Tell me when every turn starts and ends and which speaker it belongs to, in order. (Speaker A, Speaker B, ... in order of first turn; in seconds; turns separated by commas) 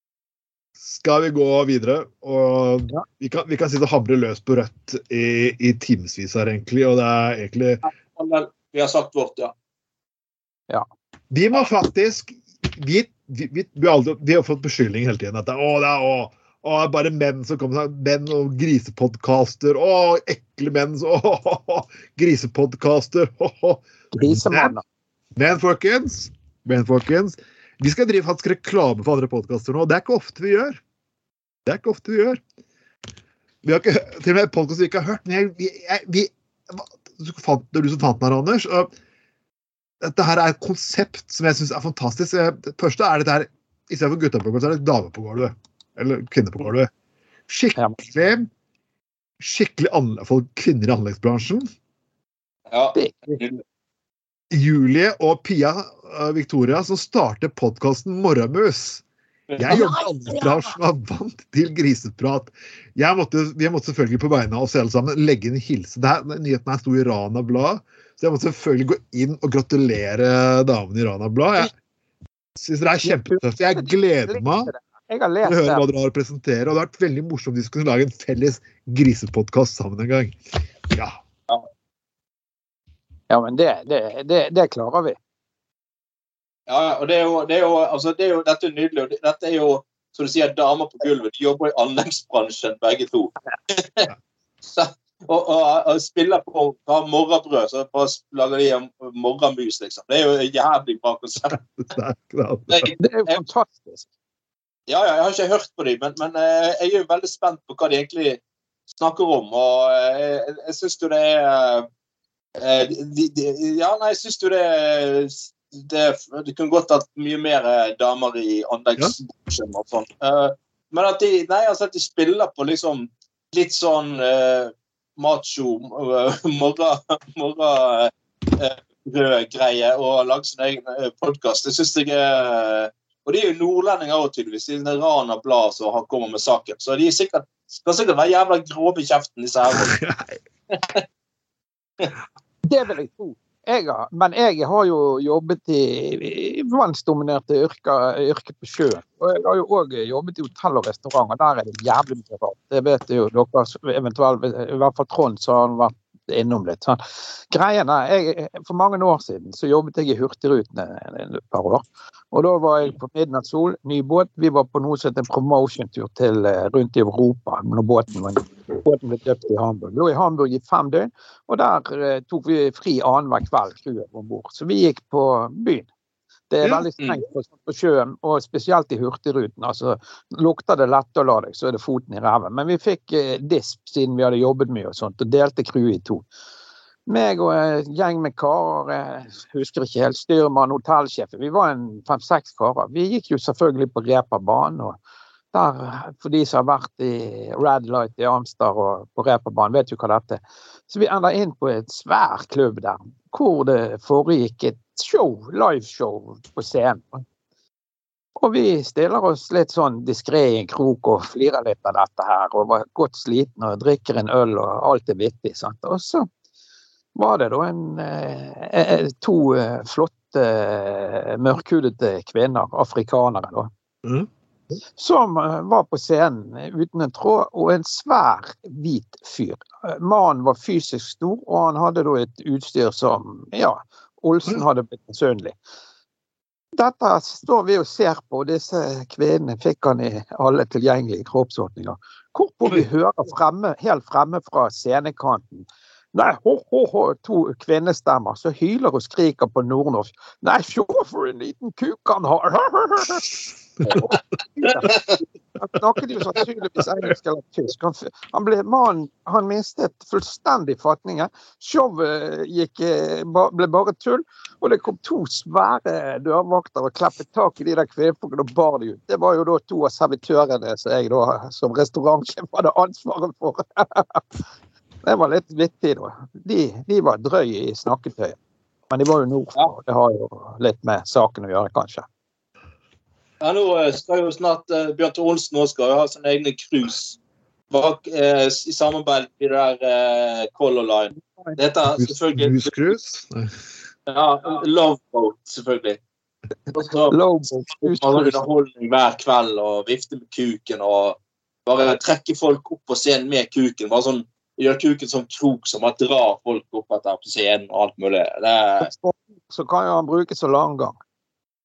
Speaker A: 0.8-7.8, Speaker B: 7.8-9.5, Speaker A: 11.3-24.7, Speaker C: 24.1-24.8, Speaker A: 25.4-30.8, Speaker A: 31.6-32.4, Speaker A: 33.6-38.9, Speaker A: 40.0-46.9, Speaker A: 47.5-48.5, Speaker A: 49.4-51.7, Speaker B: 52.7-53.6, Speaker C: 52.9-53.4, Speaker A: 54.5-59.0, Speaker B: 59.5-59.8, Speaker A: 59.6-71.7, Speaker C: 59.7-60.7, Speaker A: 72.6-74.7, Speaker C: 73.0-75.8, Speaker A: 75.4-80.4, Speaker A: 80.9-81.2, Speaker C: 83.3-85.2, Speaker B: 86.7-94.1, Speaker B: 94.6-101.6, Speaker A: 101.5-102.9, Speaker B: 102.7-103.4, Speaker C: 103.0-104.0, Speaker B: 104.9-111.9, Speaker B: 112.6-140.0, Speaker A: 139.7-140.3, Speaker B: 140.7-141.0, Speaker C: 142.6-175.9, Speaker C: 176.5-186.2, Speaker A: 176.6-176.9, Speaker C: 187.1-195.0, Speaker C: 195.5-207.2, Speaker C: 208.4-216.3, Speaker C: 217.1-223.7, Speaker C: 225.0-235.6, Speaker C: 236.8-253.3, Speaker C: 253.9-255.0, Speaker B: 254.6-255.0, Speaker C: 255.6-274.2, Speaker C: 275.0-278.4, Speaker C: 278.9-282.1, Speaker B: 283.4-287.2, Speaker B: 287.7-292.8, Speaker C: 291.2-291.6, Speaker A: 291.9-293.5, Speaker B: 294.1-296.0, Speaker B: 296.7-297.1, Speaker C: 297.1-298.4, Speaker B: 297.7-308.9, Speaker C: 308.8-311.0